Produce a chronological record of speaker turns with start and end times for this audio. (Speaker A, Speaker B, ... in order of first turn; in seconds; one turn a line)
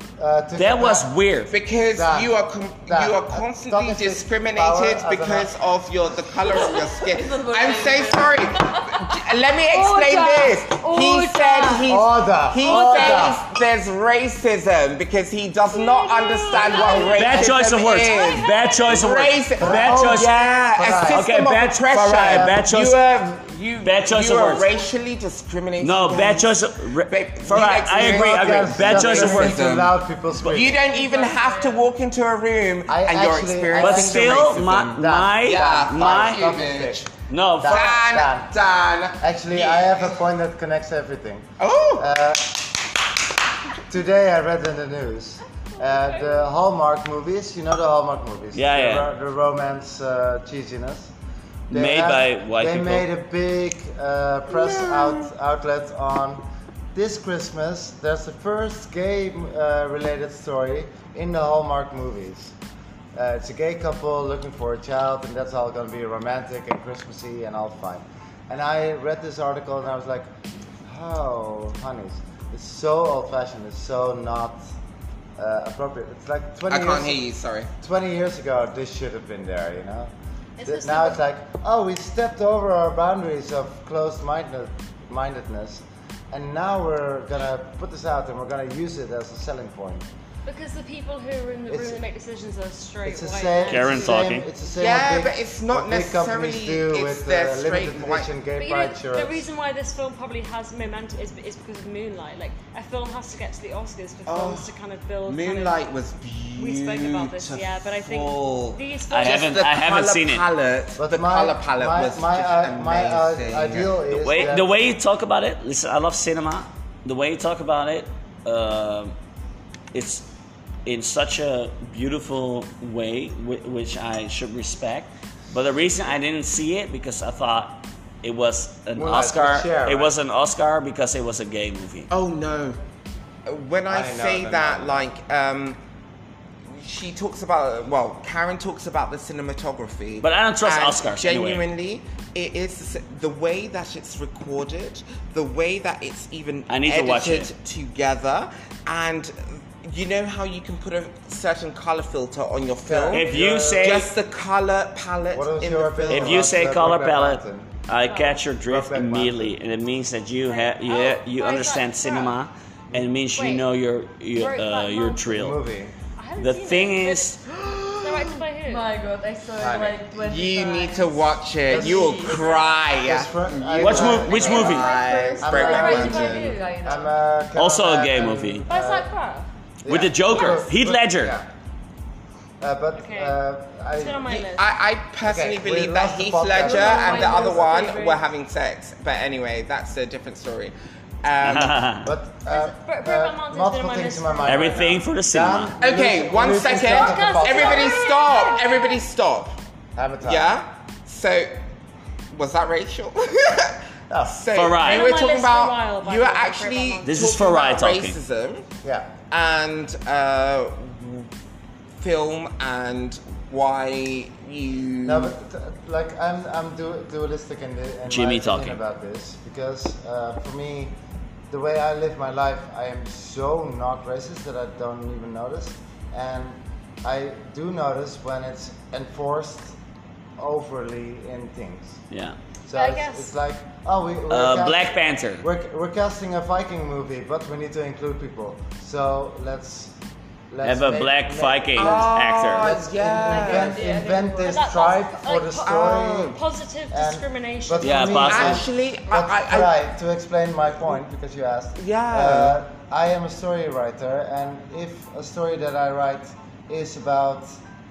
Speaker A: 0.2-1.1
Speaker B: 0.6-1.5
Speaker C: 1.5-37.1
Speaker A: 1.9-2.3
Speaker A: 2.9-5.5
Speaker D: 6.5-9.1
Speaker E: 9.7-11.9
Speaker A: 11.9-13.4
Speaker E: 12.6-13.4
Speaker E: 15.7-19.0
Speaker D: 16.6-17.0
Speaker B: 17.0-20.3
Speaker A: 19.6-21.3
Speaker B: 21.1-23.0
Speaker A: 22.1-22.6
Speaker B: 23.8-24.7
Speaker B: 25.8-29.8
Speaker A: 27.9-30.8
Speaker D: 30.9-31.9
Speaker A: 32.9-38.5
Speaker B: 33.8-36.6
Speaker B: 37.3-37.9
Speaker C: 37.6-40.1
Speaker A: 39.2-42.9
Speaker C: 41.6-42.1
Speaker A: 43.9-51.1
Speaker E: 46.1-46.3
Speaker B: 48.5-49.1
Speaker A: 51.7-62.5
Speaker B: 51.7-53.0
Speaker C: 54.5-55.3
Speaker A: 63.1-70.3
Speaker A: 70.8-74.7
Speaker A: 75.4-77.2
Speaker C: 76.7-77.7
Speaker A: 77.8-80.1
Speaker E: 80.6-81.2
Speaker A: 80.6-90.0
Speaker E: 90.5-94.4
Speaker A: 91.7-92.0
Speaker A: 93.0-99.5
Speaker B: 93.7-94.5
Speaker C: 94.8-98.3
Speaker E: 98.6-105.8
Speaker C: 104.2-104.7
Speaker C: 105.2-114.1
Speaker E: 106.5-109.6
Speaker B: 109.1-110.4
Speaker A: 111.0-114.8
Speaker B: 114.1-119.1
Speaker B: 119.9-120.2
Speaker B: 120.8-132.1
Speaker A: 128.9-130.2
Speaker C: 132.1-132.8
Speaker C: 133.4-135.8
Speaker A: 133.9-135.1
Speaker C: 136.7-156.6
Speaker B: 140.2-141.6
Speaker B: 146.7-147.5
Speaker A: 152.8-154.1
Speaker B: 153.1-154.1
Speaker A: 155.3-157.7
Speaker B: 156.1-165.6
Speaker E: 158.1-158.4
Speaker A: 158.6-159.6
Speaker E: 160.4-162.3
Speaker E: 163.3-163.7
Speaker E: 164.3-165.3
Speaker A: 165.2-165.9
Speaker E: 166.2-167.4
Speaker B: 166.4-167.4
Speaker C: 167.5-168.3
Speaker E: 168.0-168.9
Speaker D: 168.6-172.4
Speaker A: 169.6-170.0
Speaker C: 170.1-176.3
Speaker A: 171.7-179.1
Speaker B: 173.8-174.9
Speaker D: 174.0-177.2
Speaker E: 174.5-175.0
Speaker E: 175.5-176.7
Speaker B: 177.5-178.6
Speaker E: 178.7-179.5
Speaker A: 179.8-181.5
Speaker B: 179.9-181.3
Speaker E: 180.3-180.7
Speaker A: 182.6-184.4
Speaker E: 182.9-183.4
Speaker E: 183.9-184.7
Speaker C: 184.4-191.8
Speaker A: 185.2-187.9
Speaker D: 186.7-188.0
Speaker E: 186.7-188.2
Speaker B: 191.4-192.1
Speaker A: 192.0-198.0
Speaker E: 192.5-194.9
Speaker B: 194.4-195.7
Speaker C: 195.8-199.6
Speaker E: 196.7-199.0
Speaker A: 199.9-200.5
Speaker C: 200.2-201.5
Speaker C: 202.3-208.7
Speaker A: 204.1-204.4
Speaker B: 204.5-205.1
Speaker E: 204.8-207.4
Speaker B: 207.1-208.2
Speaker A: 208.8-209.1
Speaker C: 209.3-211.3
Speaker C: 212.0-215.3
Speaker A: 215.0-221.0
Speaker B: 218.1-218.8
Speaker A: 221.5-229.8
Speaker A: 230.4-232.0
Speaker B: 232.1-232.4
Speaker A: 232.6-239.9
Speaker E: 232.7-233.3
Speaker B: 234.3-235.4
Speaker A: 240.5-257.6
Speaker B: 240.6-242.7
Speaker C: 241.8-243.8
Speaker E: 243.3-248.3
Speaker D: 243.8-244.2
Speaker C: 245.6-246.4
Speaker B: 247.8-248.6
Speaker C: 248.2-249.7
Speaker C: 251.8-252.6